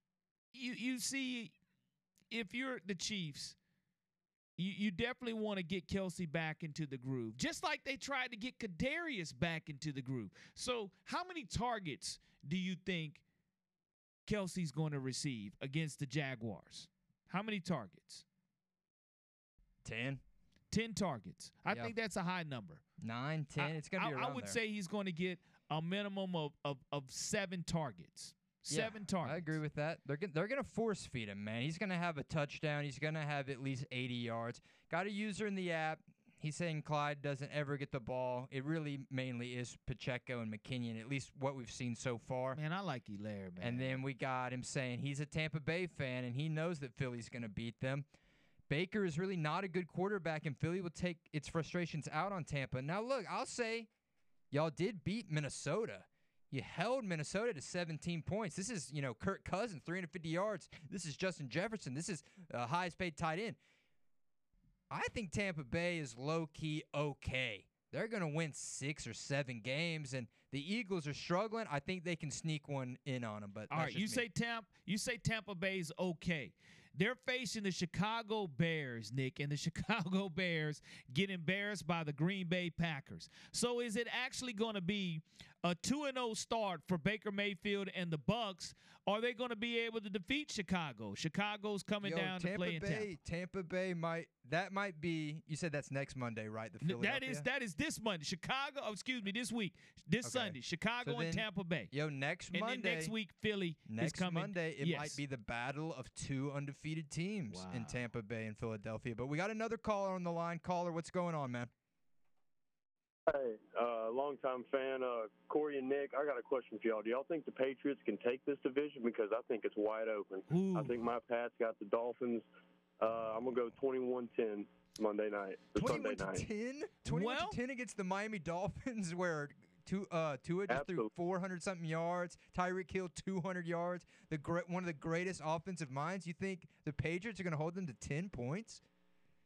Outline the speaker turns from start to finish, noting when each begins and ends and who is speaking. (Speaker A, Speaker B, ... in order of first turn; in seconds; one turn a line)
Speaker A: 0.5-1.5
Speaker A: 2.3-3.6
Speaker A: 4.6-13.2
Speaker A: 14.3-18.2
Speaker B: 19.8-20.2
Speaker A: 20.7-22.8
Speaker B: 23.0-24.6
Speaker A: 23.6-29.6
Speaker B: 28.7-42.6
Speaker A: 42.5-44.0
Speaker B: 43.6-48.1
Speaker B: 48.7-53.9
Speaker B: 54.5-63.6
Speaker B: 64.9-74.2
Speaker A: 73.7-93.1
Speaker B: 92.0-97.5
Speaker A: 96.8-101.9
Speaker B: 100.2-103.1
Speaker A: 102.5-105.2
Speaker B: 103.9-111.7
Speaker A: 107.5-108.0
Speaker C: 113.3-122.5
Speaker A: 120.5-120.9
Speaker C: 123.0-126.5
Speaker B: 125.8-138.8
Speaker A: 127.1-127.6
Speaker C: 130.7-131.1